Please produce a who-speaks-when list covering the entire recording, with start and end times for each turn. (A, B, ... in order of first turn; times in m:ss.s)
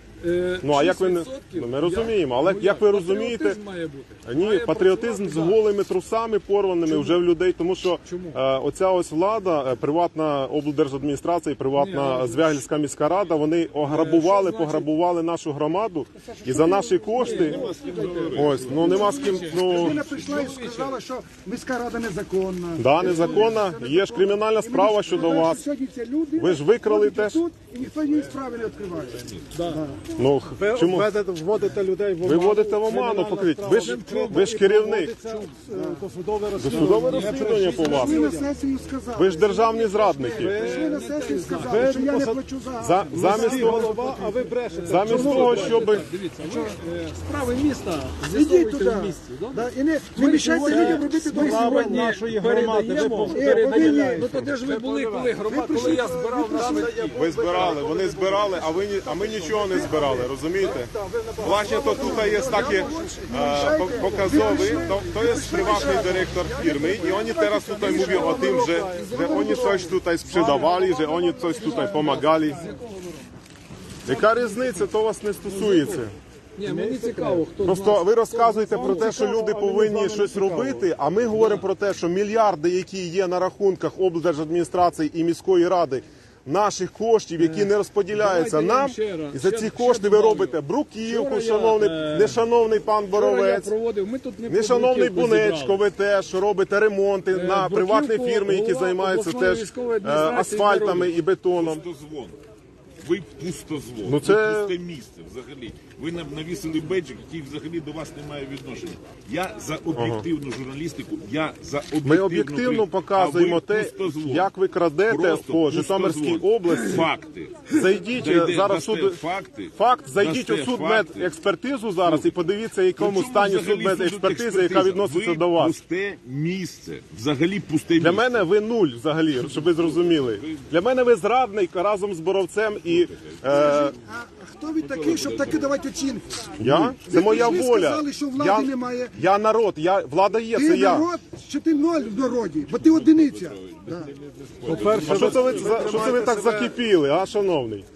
0:00.2-0:05.6 A
0:00.6-0:03.6 B
0:04.2-0:17.6 B
0:06.9-0:07.2 A
0:08.0-0:08.4 A
0:11.8-0:12.6 A
0:13.8-0:14.9 A
0:16.4-0:30.0 C
0:17.1-0:21.0 A
0:17.4-0:19.1 D
0:18.4-0:20.1 B
0:22.8-0:25.6 B
0:26.4-0:27.4 B
0:29.0-0:29.5 D
0:29.5-0:29.9 A
0:30.1-0:31.1 B
0:30.6-0:38.5 E
0:32.2-0:35.1 B
0:33.7-0:34.5 A
0:35.7-0:36.0 C
0:36.6-0:38.2 B
0:37.6-0:44.5 C
0:39.2-0:40.6 B
0:40.3-0:42.4 E
0:40.6-0:42.0 A
0:42.8-0:43.9 B
0:43.1-0:46.0 E
0:44.7-0:57.2 A
0:44.9-0:46.1 B
0:46.4-0:46.8 C
0:48.3-0:54.3 C
0:50.4-0:56.0 E
0:55.5-0:56.9 C
0:56.6-1:02.9 E
0:57.1-1:12.6 B
0:59.6-1:00.2 C
1:01.4-1:09.9 C
1:02.5-1:06.2 A
1:07.8-1:10.8 E
1:08.9-1:09.9 A
1:10.6-1:12.8 C
1:11.6-1:13.2 A
1:14.1-1:16.2 B
1:15.5-1:16.0 A
1:16.6-1:18.1 A
1:16.6-1:17.4 E
1:17.6-1:33.7 B
1:18.3-1:20.9 E
1:18.8-1:19.1 A
1:21.3-1:21.6 A
1:27.4-1:32.4 A
1:33.1-1:35.9 A
1:34.5-1:41.8 B
1:37.3-1:41.1 A
1:41.5-1:42.4 D
1:43.0-1:54.5 D
1:44.0-1:44.8 B
1:49.9-1:50.3 B
1:52.0-1:57.1 B
1:55.1-2:01.3 D
1:57.7-1:59.2 B
1:59.8-2:05.8 B
2:02.0-2:02.4 D
2:03.0-2:08.3 D
2:08.0-2:14.0 B
2:09.5-2:10.6 D
2:13.5-2:19.2 C
2:14.8-2:15.7 D
2:16.6-2:21.1 B
2:16.6-2:16.9 D
2:20.5-2:24.1 C
2:22.7-2:26.2 D
2:24.6-2:26.7 E
2:25.0-2:27.9 B
2:25.2-2:26.3 C